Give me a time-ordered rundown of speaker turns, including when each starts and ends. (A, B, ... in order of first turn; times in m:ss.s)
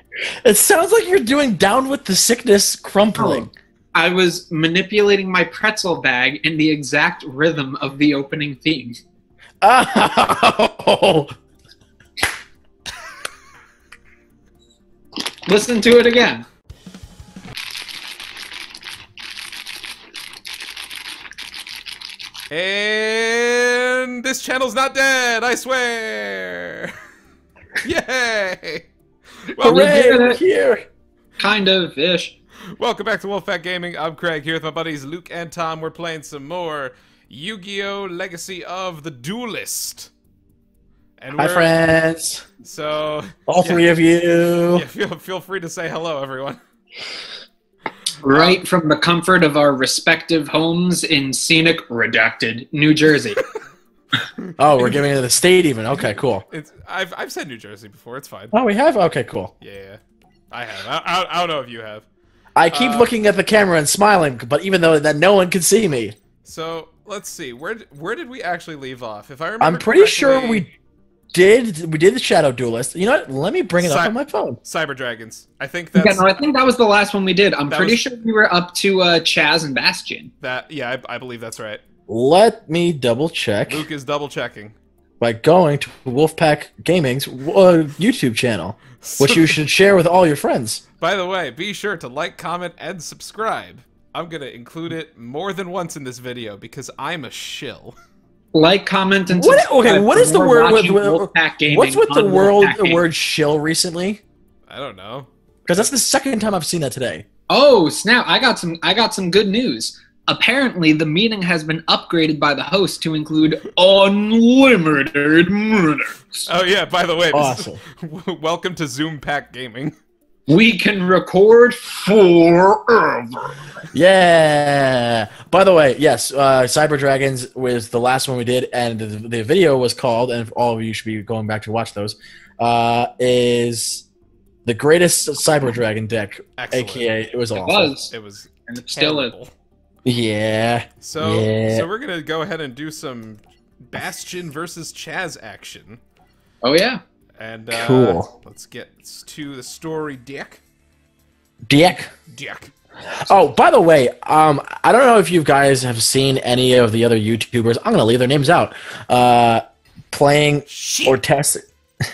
0:00.4-0:03.5 A
0:03.1-0:09.0 B
0:09.6-0:11.3 A
0:15.5-0:16.4 B
0:22.5-0:26.9 C
0:27.8-0:28.9 C
0:29.5-0:29.9 C
0:29.6-0:30.8 A
0:29.6-0:30.4 B
0:31.4-0:32.3 B
0:32.8-0:40.1 C
0:41.2-0:41.7 C
0:41.4-0:42.4 A
0:42.6-0:43.9 C
0:43.5-0:44.8 A
0:44.7-0:46.6 C
0:48.2-0:53.4 B
0:48.3-0:48.6 C
0:54.4-0:55.0 C
0:54.6-0:56.4 A
0:56.0-0:58.5 C
0:58.5-0:59.5 A
0:59.6-1:00.0 C
1:00.5-1:02.1 C
1:02.6-1:06.1 A
1:02.7-1:03.1 C
1:06.4-1:10.6 C
1:09.6-1:10.7 A
1:11.3-1:14.6 A
1:13.8-1:16.4 C
1:16.0-1:20.3 B
1:17.7-1:18.0 C
1:20.4-1:21.8 C
1:22.1-1:23.8 A
1:23.6-1:24.8 C
1:25.2-1:30.8 A
1:29.0-1:29.6 C
1:31.0-1:38.0 C
1:38.5-1:43.0 B
1:39.3-1:44.2 A
1:44.7-1:45.9 C
1:45.7-1:47.2 A
1:47.5-1:56.4 B
1:56.4-1:59.9 C
1:57.3-1:57.8 A
2:00.5-2:03.6 B
2:03.9-2:14.0 A
2:14.6-2:17.9 A
2:16.6-2:17.1 C
2:17.6-2:18.1 B
2:18.1-2:19.5 C
2:18.7-2:19.3 B
2:20.0-2:21.8 A
2:21.0-2:26.0 C
2:26.6-2:27.0 B
2:27.4-2:30.6 C
2:27.7-2:28.3 A
2:31.7-2:32.1 A
2:32.3-2:32.7 C
2:33.3-2:41.6 A
2:40.7-2:41.2 C